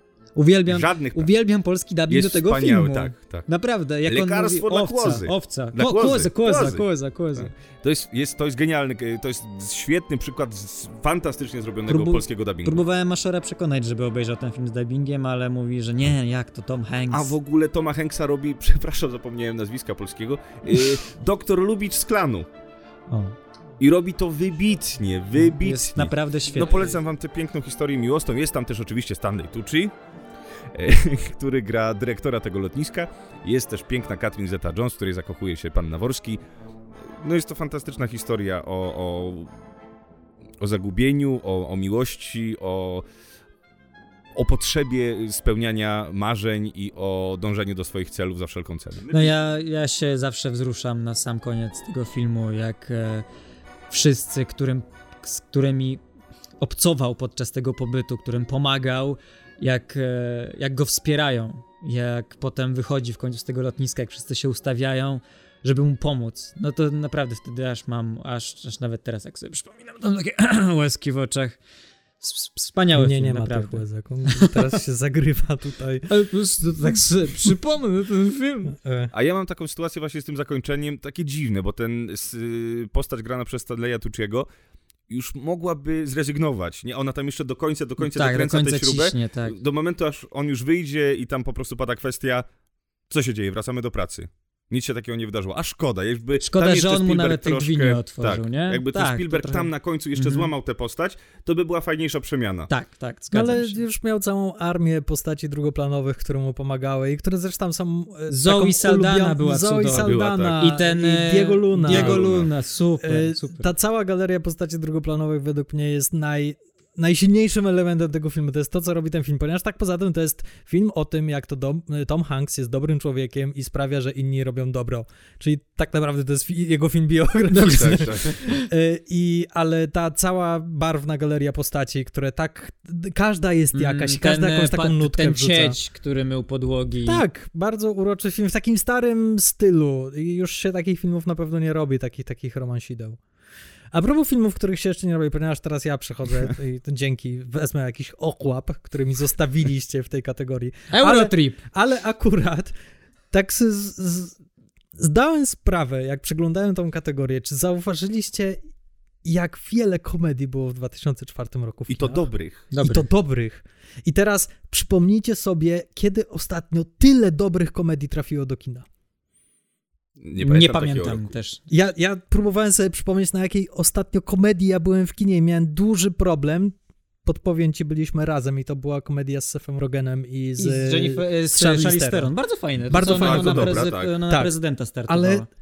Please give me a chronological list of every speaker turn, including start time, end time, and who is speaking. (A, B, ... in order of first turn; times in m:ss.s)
0:00.4-0:07.5 A
0:00.7-0:01.3 B
0:02.1-0:03.5 B
0:04.1-0:12.8 B
0:11.9-0:17.4 A
0:17.1-0:22.5 B
0:23.1-0:23.4 A
0:23.8-0:29.9 B
0:25.4-0:27.0 A
0:30.7-0:36.4 B
0:37.1-0:39.5 B
0:40.6-0:43.1 B
0:44.4-0:49.3 B
0:49.1-0:53.3 A
0:53.9-0:56.0 A
0:56.6-1:11.6 A
1:12.2-1:13.8 A
1:13.0-1:16.1 C
1:16.1-1:18.7 A
1:18.8-1:19.1 C
1:19.1-1:24.5 B
1:25.1-1:32.5 B
1:28.0-1:29.6 A
1:33.1-1:42.7 B
1:36.4-1:40.5 A
1:42.7-1:43.8 A
1:43.3-1:52.4 C
1:48.3-1:53.7 A
1:49.9-1:50.6 B
1:51.8-1:52.5 B
1:53.0-2:15.8 C
2:07.5-2:08.4 B
2:07.6-2:08.6 A
2:13.7-2:17.2 A
2:17.0-2:23.2 C
2:23.9-2:32.7 C
2:30.9-2:31.6 A
2:33.3-2:34.4 C
2:35.0-2:38.6 C
2:39.2-2:48.8 C
2:41.9-2:42.6 B
2:42.7-2:43.0 A
2:50.2-2:51.3 B
2:50.4-2:51.6 A
2:51.7-3:02.3 C
3:00.6-3:05.5 A
3:02.9-3:04.5 C
3:03.0-3:04.1 B
3:05.1-3:05.5 C